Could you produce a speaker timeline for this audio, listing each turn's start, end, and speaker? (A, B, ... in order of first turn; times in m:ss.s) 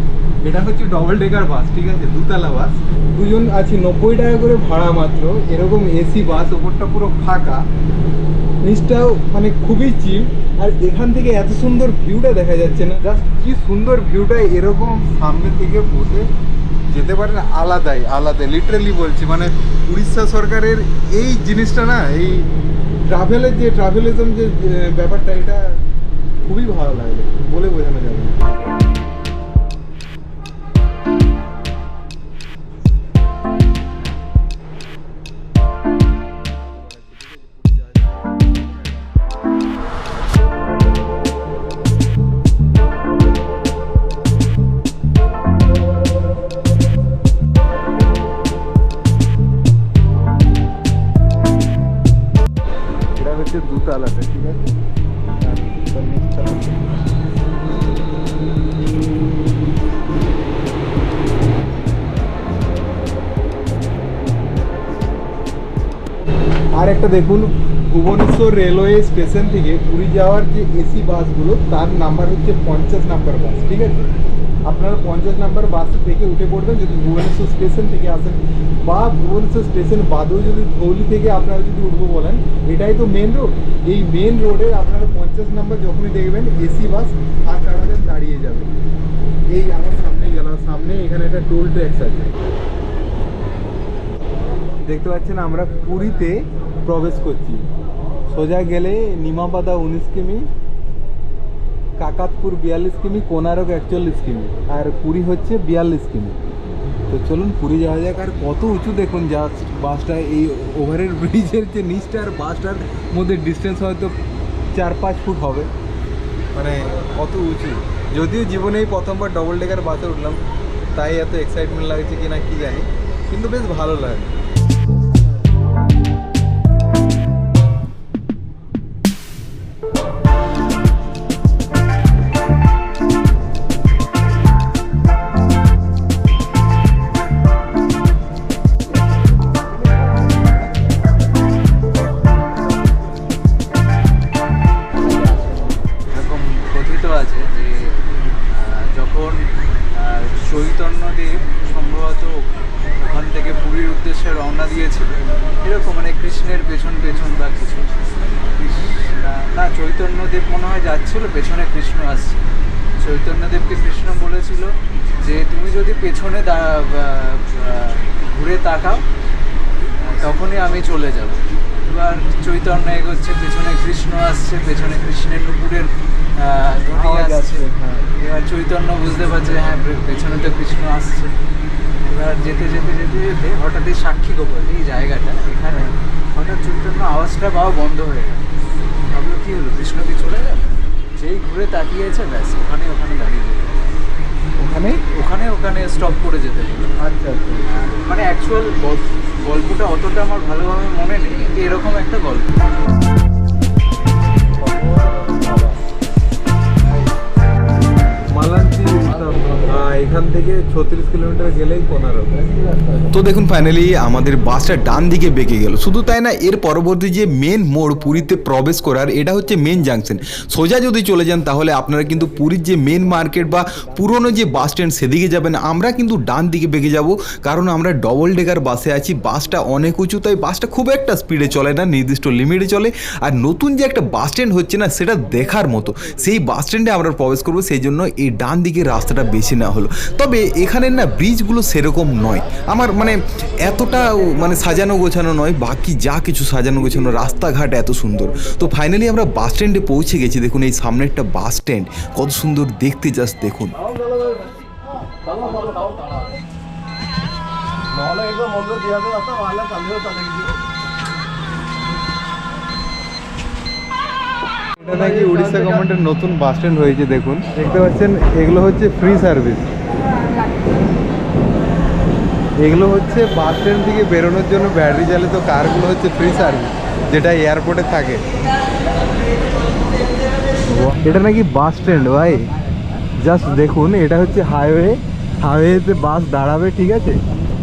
0:00.4-0:07.6 A
0:08.6-0:16.3 A
0:16.9-0:22.5 A
0:23.1-0:25.8 A
0:26.4-0:28.4 A
0:53.2-0:54.7 A
0:55.4-0:56.9 A
1:06.8-1:14.1 A
1:14.6-1:28.7 A
1:29.5-1:32.4 A
1:34.8-1:37.7 A
1:38.3-1:40.4 A
1:42.0-1:46.4 A
1:47.1-1:54.1 A
1:54.7-1:55.7 A
1:56.5-2:00.4 A
2:00.9-2:04.3 A
2:26.1-2:38.0 B
2:38.6-2:42.4 B
2:43.0-2:49.0 B
2:50.0-2:57.6 B
2:56.9-2:58.0 A
2:58.2-3:01.3 B
3:02.0-3:08.4 B
3:09.1-3:13.9 B
3:14.6-3:15.0 A
3:15.1-3:16.9 B
3:17.0-3:17.6 A
3:17.7-3:22.7 B
3:28.3-3:32.5 A
3:33.1-4:13.7 C
4:24.8-4:29.7 A
4:32.6-4:38.2 A
4:40.7-4:42.5 A
4:43.2-4:47.2 A